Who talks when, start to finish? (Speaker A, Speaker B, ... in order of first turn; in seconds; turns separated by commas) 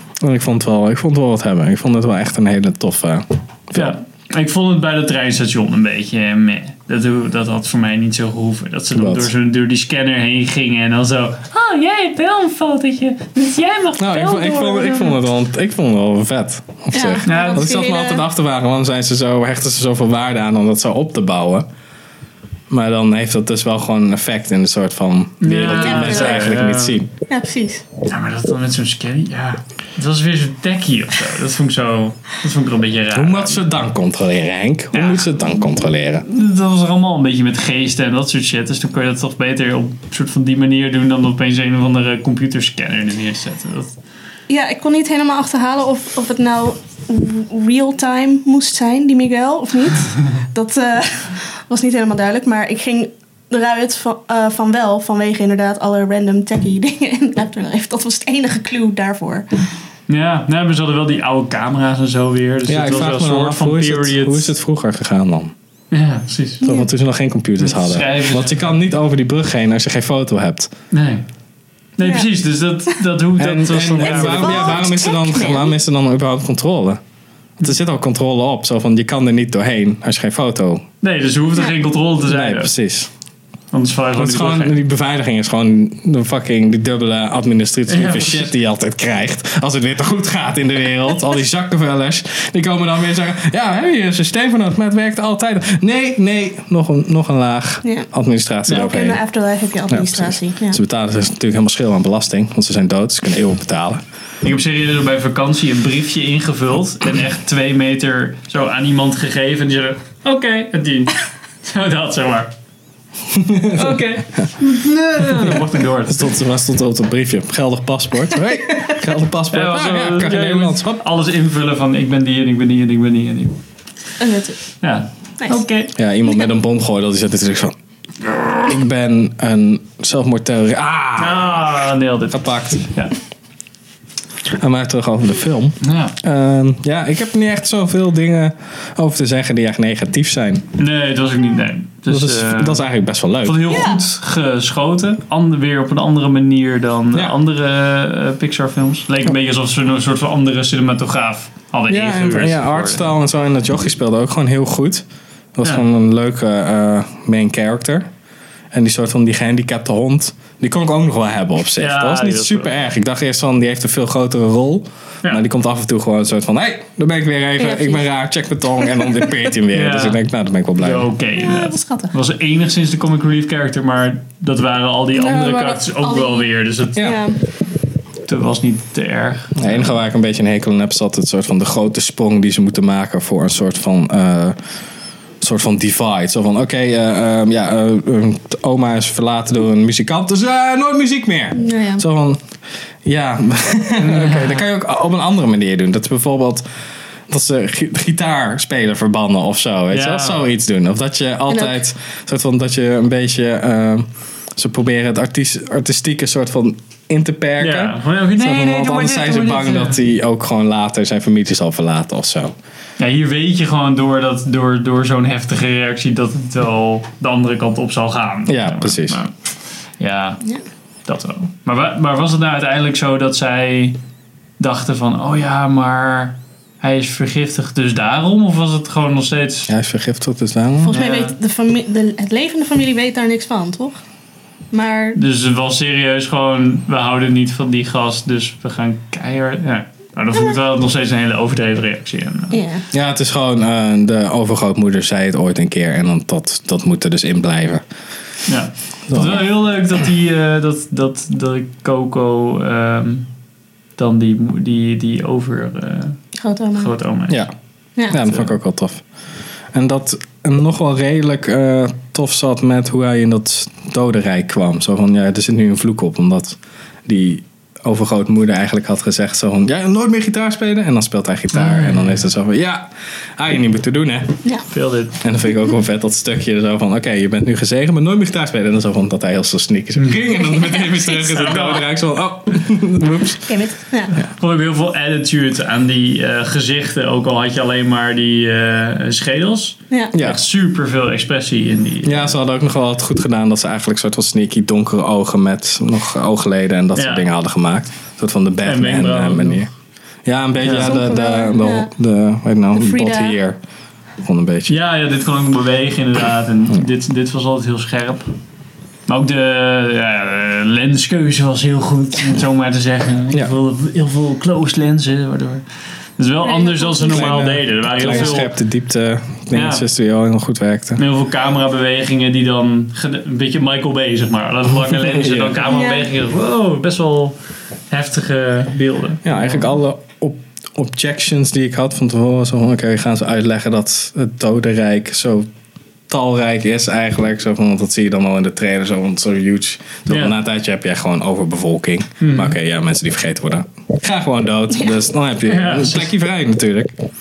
Speaker A: 0.2-3.9, Speaker B: 3.7-15.2, Speaker A: 8.9-9.3, Speaker A: 14.0-21.6, Speaker C: 16.9-18.2, Speaker B: 17.2-17.7, Speaker A: 22.7-27.1, Speaker B: 25.4-27.0, Speaker C: 25.7-26.4, Speaker C: 27.3-27.8, Speaker B: 28.1-33.6, Speaker A: 33.1-36.2, Speaker B: 34.9-35.3, Speaker B: 36.2-43.9, Speaker C: 44.5-59.7, Speaker B: 60.1-64.5, Speaker A: 62.7-65.5, Speaker B: 65.9-66.6, Speaker C: 66.6-66.9, Speaker A: 66.6-70.7, Speaker B: 67.6-68.7, Speaker B: 70.9-71.2, Speaker B: 72.0-74.8, Speaker C: 72.0-72.3, Speaker A: 73.4-77.0, Speaker C: 74.0-75.7, Speaker A: 77.6-80.8, Speaker B: 81.0-82.7, Speaker A: 82.2-83.1, Speaker B: 83.7-84.8, Speaker A: 84.2-99.2, Speaker B: 87.9-88.5, Speaker B: 98.7-98.9, Speaker C: 98.7-100.8, Speaker A: 99.9-104.0, Speaker B: 104.4-112.5, Speaker A: 113.3-114.5, Speaker B: 113.7-116.3, Speaker A: 115.2-121.0, Speaker B: 119.5-123.6, Speaker C: 124.2-124.7, Speaker B: 124.8-125.9, Speaker A: 125.9-131.7, Speaker B: 131.2-133.1, Speaker A: 132.3-132.8, Speaker A: 134.6-140.6, Speaker B: 135.8-136.2, Speaker B: 140.8-142.8, Speaker A: 142.1-143.7, Speaker B: 143.4-153.1, Speaker C: 143.7-144.0, Speaker A: 151.9-155.0, Speaker A: 155.6-158.1, Speaker A: 158.7-171.1, Speaker B: 161.8-162.8, Speaker C: 167.6-168.1, Speaker C: 168.9-169.2, Speaker B: 169.7-170.2, Speaker B: 170.8-177.2, Speaker C: 171.4-172.1, Speaker C: 175.1-177.4, Speaker B: 178.2-180.0, Speaker A: 179.6-184.6, Speaker A: 185.4-192.4, Speaker C: 191.5-192.0, Speaker A: 193.0-196.6, Speaker B: 194.0-194.6, Speaker A: 197.3-212.5, Speaker B: 199.9-200.5, Speaker C: 201.5-201.8, Speaker B: 207.6-210.0, Speaker B: 213.0-219.3, Speaker A: 218.5-219.2, Speaker B: 220.0-220.4, Speaker B: 221.1-224.0, Speaker B: 224.6-229.7, Speaker A: 229.7-230.9, Speaker C: 230.8-234.0, Speaker B: 230.9-231.3, Speaker C: 234.7-235.2, Speaker B: 235.1-242.6, Speaker C: 242.5-242.8, Speaker A: 242.9-247.8, Speaker B: 248.4-253.3, Speaker A: 249.1-249.5, Speaker B: 253.9-256.2, Speaker C: 256.4-256.9, Speaker B: 256.7-257.5, Speaker A: 257.3-257.5, Speaker A: 258.1-259.0, Speaker B: 258.1-258.5, Speaker A: 259.7-274.4, Speaker B: 271.5-272.2, Speaker B: 274.7-275.2, Speaker A: 275.2-283.6, Speaker C: 280.5-281.4, Speaker B: 281.1-281.9, Speaker C: 283.5-284.1, Speaker B: 284.1-292.4, Speaker A: 290.1-290.4, Speaker A: 292.0-299.7, Speaker B: 296.9-297.2, Speaker B: 298.6-299.6, Speaker A: 300.2-303.6, Speaker B: 300.6-301.1, Speaker C: 300.7-301.9, Speaker C: 302.7-303.4, Speaker A: 304.2-304.8, Speaker B: 304.7-308.3, Speaker B: 309.1-315.6, Speaker B: 316.2-318.5, Speaker C: 316.4-317.3, Speaker A: 317.0-321.0, Speaker C: 318.0-318.4, Speaker B: 319.5-319.9, Speaker B: 321.0-327.4, Speaker A: 325.1-325.6, Speaker C: 325.6-326.1, Speaker B: 327.9-329.6, Speaker A: 329.2-335.5, Speaker A: 336.1-346.9, Speaker B: 340.1-340.4, Speaker B: 342.2-342.6, Speaker B: 345.4-346.1